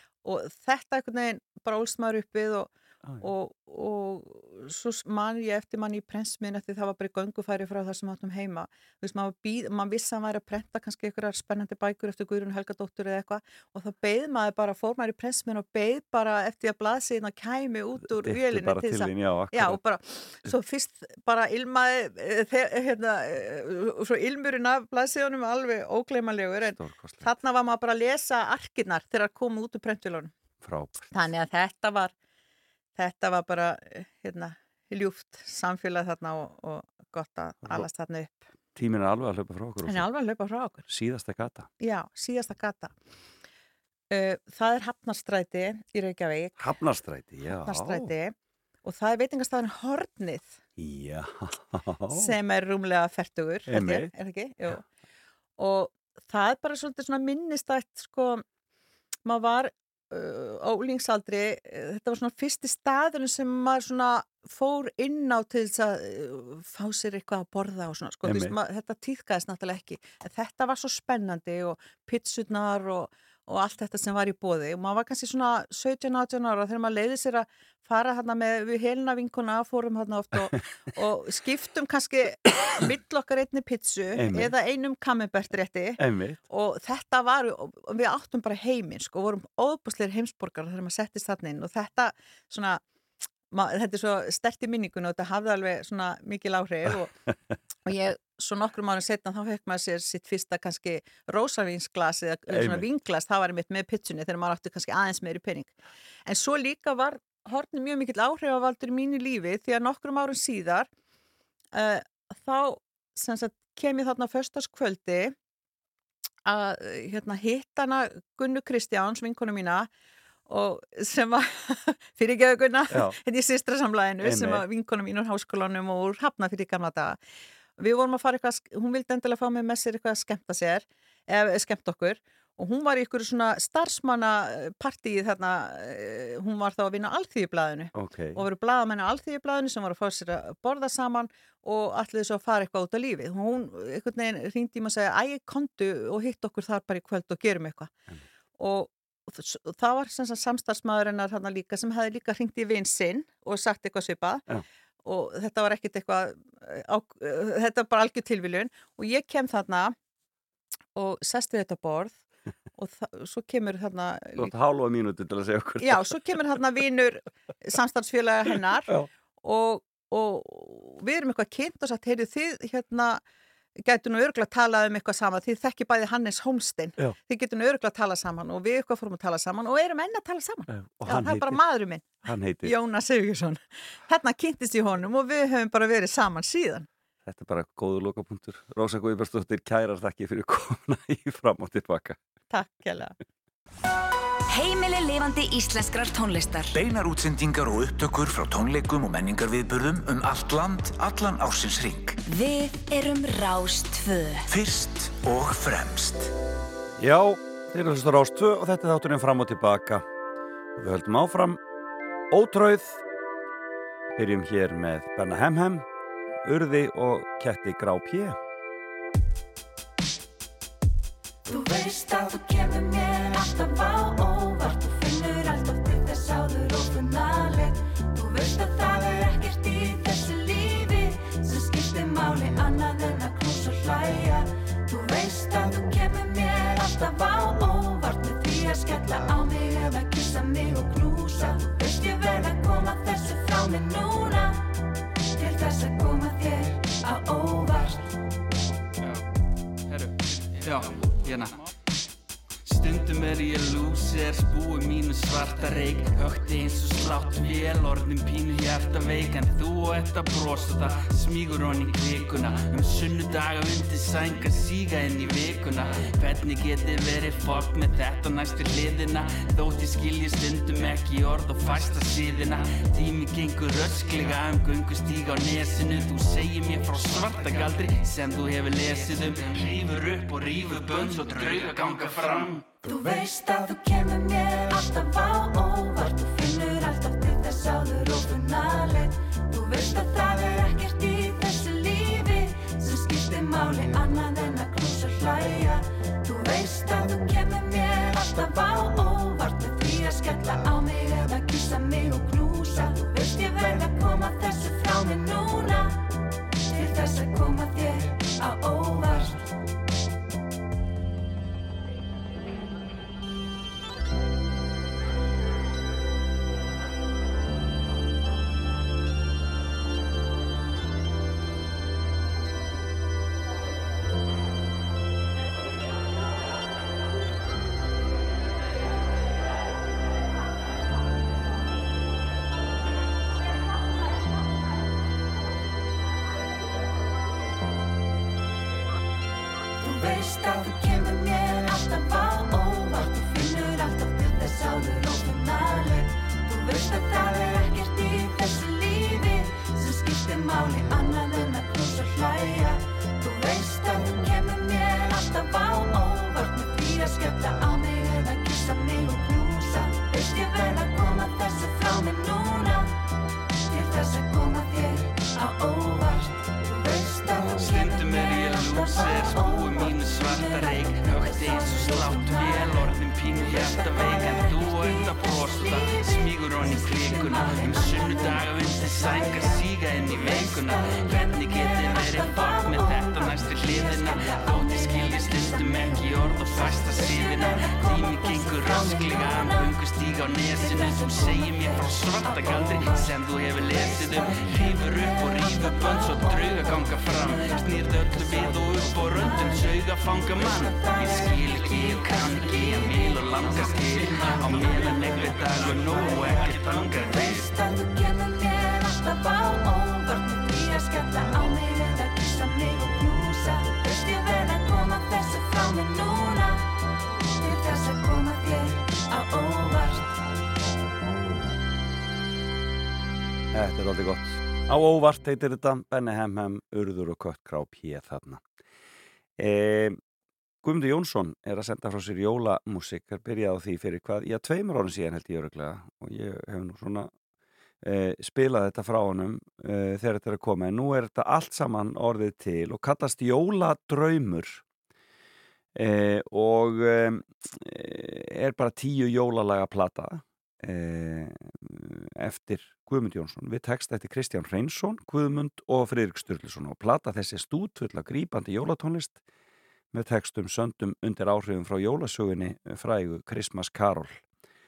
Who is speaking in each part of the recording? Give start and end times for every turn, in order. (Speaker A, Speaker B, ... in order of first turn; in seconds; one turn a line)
Speaker A: 0.2-2.7
Speaker A: 3.2-30.3
Speaker B: 18.0-19.8
Speaker B: 26.6-27.3
Speaker B: 30.6-31.1
Speaker A: 31.1-32.1
Speaker A: 33.0-38.4
Speaker B: 38.7-40.1
Speaker A: 39.8-40.8
Speaker B: 40.9-41.7
Speaker A: 41.8-42.9
Speaker A: 44.1-46.6
Speaker B: 46.6-48.1
Speaker A: 47.5-50.6
Speaker B: 50.8-52.3
Speaker A: 52.1-54.9
Speaker B: 53.7-54.1
Speaker A: 55.6-58.4
Speaker A: 59.2-92.8
Speaker B: 68.2-68.5
Speaker B: 84.1-84.5
Speaker B: 86.0-86.4
Speaker A: 93.5-97.1
Speaker A: 97.8-105.7
Speaker B: 102.5-102.8
Speaker A: 106.2-110.9
Speaker A: 111.7-115.3
Speaker A: 116.5-119.9
Speaker A: 120.5-127.2
Speaker B: 122.9-123.2
Speaker B: 124.2-124.6
Speaker A: 127.8-147.9
Speaker B: 137.9-138.4
Speaker A: 148.6-154.4
Speaker A: 155.0-159.9
Speaker A: 160.9-162.2
Speaker A: 162.8-164.5
Speaker B: 164.3-166.4
Speaker A: 165.8-173.2
Speaker A: 173.8-186.9
Speaker B: 180.7-181.6
Speaker B: 182.2-182.7
Speaker B: 187.2-192.2
Speaker A: 192.5-193.1
Speaker C: 194.5-196.8
Speaker D: 196.7-202.2
Speaker C: 202.2-204.4
Speaker D: 204.5-206.3
Speaker B: 207.0-210.0
Speaker B: 210.8-211.6
Speaker B: 212.3-213.0
Speaker B: 214.2-215.8
Speaker B: 216.4-218.4
Speaker E: 221.4-244.7
Speaker E: 245.3-248.1
Speaker F: 249.9-251.6
Speaker F: 252.7-282.7
Speaker E: 282.8-306.0
Speaker E: 306.6-309.4
Speaker E: 339.8-362.9
Speaker E: 363.6-386.0
Speaker F: 367.4-407.4
Speaker E: 386.5-389.8
Speaker E: 390.5-392.5
Speaker E: 393.7-399.8
Speaker E: 400.4-416.7
Speaker E: 417.4-420.1
Speaker B: 423.5-428.4
Speaker B: 429.4-430.0
Speaker B: 430.6-437.1
Speaker B: 437.8-444.6
Speaker B: 445.7-459.2
Speaker B: 459.9-464.2